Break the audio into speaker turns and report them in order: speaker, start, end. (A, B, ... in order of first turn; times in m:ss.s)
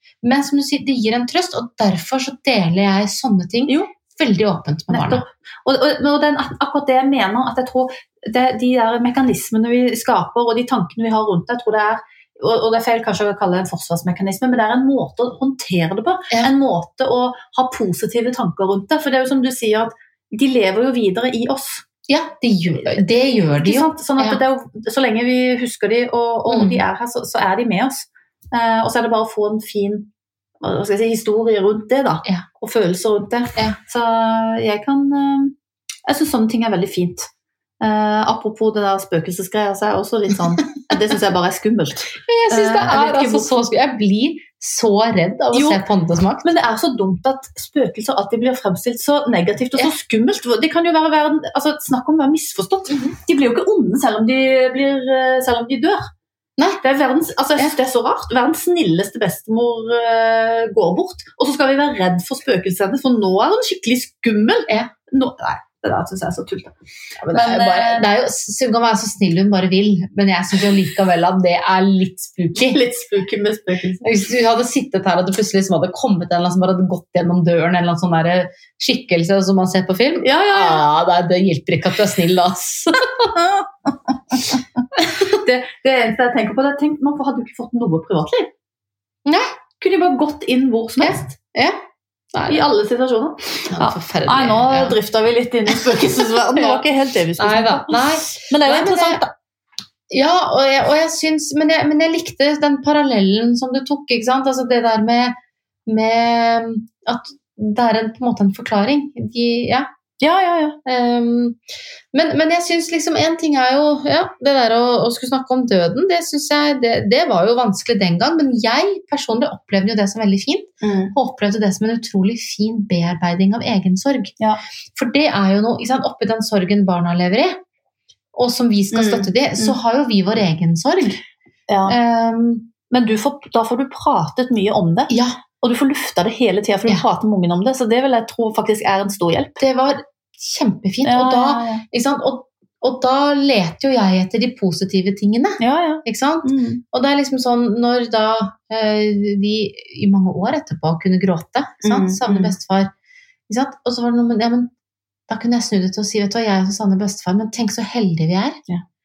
0:00.2-0:05.2 A
0:04.9-0:21.8 B
0:22.1-0:24.4 A
0:23.6-0:30.1 B
0:26.5-0:26.8 A
0:30.6-0:35.5 B
0:36.0-0:37.3 B
0:37.8-0:43.6 B
0:42.2-0:46.5 A
0:45.5-0:45.8 B
0:46.4-0:56.1 B
0:52.9-0:53.1 A
0:56.8-1:06.7 B
1:07.2-1:12.8 A
1:07.3-1:08.1 B
1:12.6-1:14.0 B
1:14.0-1:23.3 A
1:20.2-1:20.8 B
1:23.3-1:24.6 B
1:25.0-1:25.4 A
1:25.3-1:28.5 B
1:29.2-1:29.5 A
1:29.8-1:31.3 B
1:31.0-1:31.8 A
1:32.3-1:32.7 A
1:32.5-1:39.3 B
1:33.7-1:35.0 A
1:35.9-1:36.8 A
1:37.4-1:39.2 A
1:40.1-1:45.3 A
1:45.9-1:49.9 A
1:50.2-1:50.8 B
1:50.8-1:51.6 A
1:52.1-2:04.3 A
2:00.8-2:01.1 B
2:04.9-2:07.6 A
2:08.3-2:11.2 A
2:08.9-2:09.8 B
2:11.7-2:12.0 B
2:11.9-2:12.7 A
2:12.9-2:19.6 B
2:15.1-2:15.4 A
2:19.6-2:32.9 A
2:21.0-2:21.8 B
2:25.6-2:26.8 B
2:31.8-2:32.5 B
2:33.5-2:34.7 A
2:35.3-2:38.6 A